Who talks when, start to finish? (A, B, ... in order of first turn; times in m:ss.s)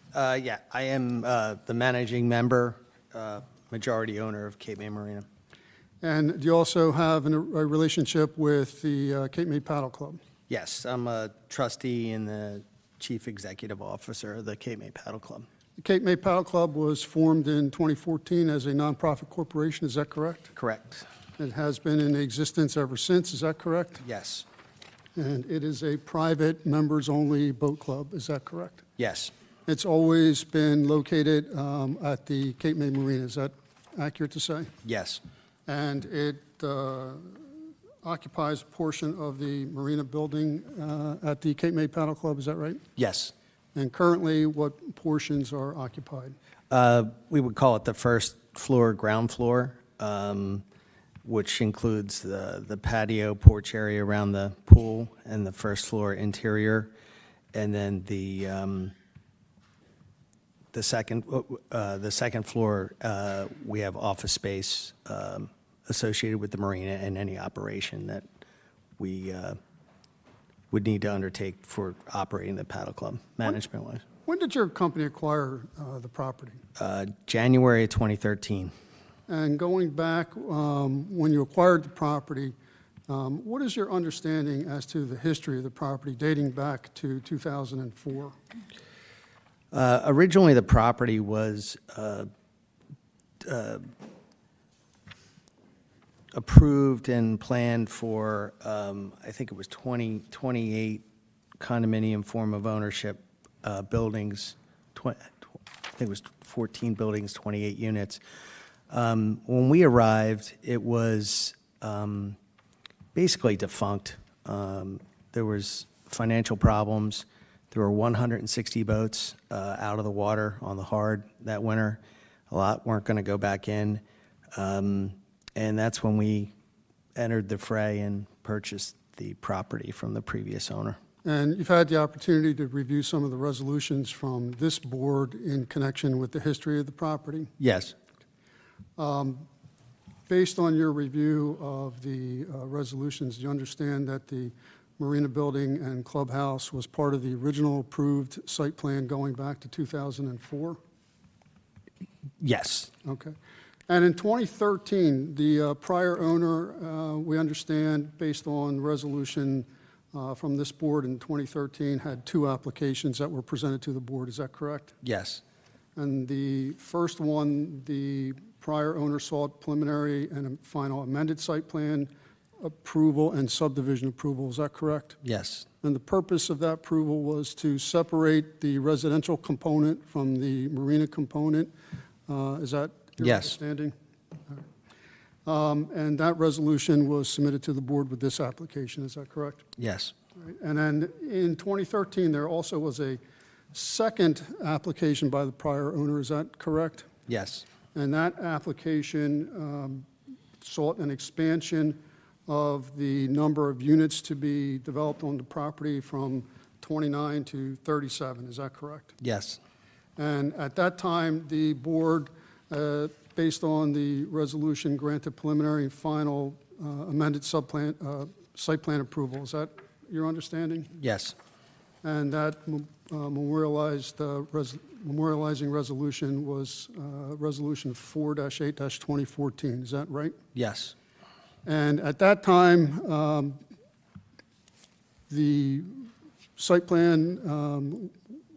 0:00.1-0:05.2 A
0:06.0-0:10.2 B
0:10.5-0:15.5 A
0:15.8-0:20.5 B
0:20.6-0:21.0 A
0:21.4-0:24.0 B
0:24.0-0:24.4 A
0:25.2-0:28.8 B
0:29.0-0:29.3 A
0:29.7-0:34.7 B
0:34.8-0:35.2 A
0:35.7-0:42.8 B
0:43.0-0:43.3 A
0:43.7-0:46.4 B
0:46.7-0:50.6 A
0:51.2-0:56.9 A
0:57.5-0:58.9 A
1:00.7-1:08.2 A
1:09.0-1:09.6 A
1:10.7-1:14.0 A
1:14.2-1:16.6 B
1:16.8-1:18.7 A
1:19.3-1:22.5 B
1:23.1-1:28.4 B
1:29.7-1:32.3 A
1:33.4-1:33.8 A
1:36.3-1:41.0 A
1:41.6-1:45.3 A
1:46.0-1:48.2 A
1:48.9-1:52.4 A
1:53.1-2:02.0 A
2:02.5-2:04.0 A
2:04.5-2:06.5 A
2:07.2-2:11.0 A
2:11.2-2:17.5 B
2:17.6-2:17.9 A
2:19.0-2:19.4 B
2:20.3-2:30.8 B
2:32.4-2:32.9 A
2:33.0-2:33.3 B
2:33.9-2:44.9 B
2:45.0-2:45.4 A
2:46.0-2:55.2 B
2:55.2-2:55.6 A
2:55.8-3:01.7 B
3:02.3-3:03.9 B
3:03.2-3:03.5 A
3:05.4-3:09.6 B
3:09.8-3:10.1 A
3:10.4-3:13.2 B
3:13.7-3:17.1 B
3:17.3-3:17.6 A
3:17.9-3:20.1 B
3:20.6-3:29.1 B
3:29.2-3:29.6 A
3:30.2-3:40.9 B
3:41.0-3:41.3 A
3:42.0-3:50.4 B
3:50.5-3:50.9 A
3:51.6-3:53.6 B
3:55.3-3:58.2 B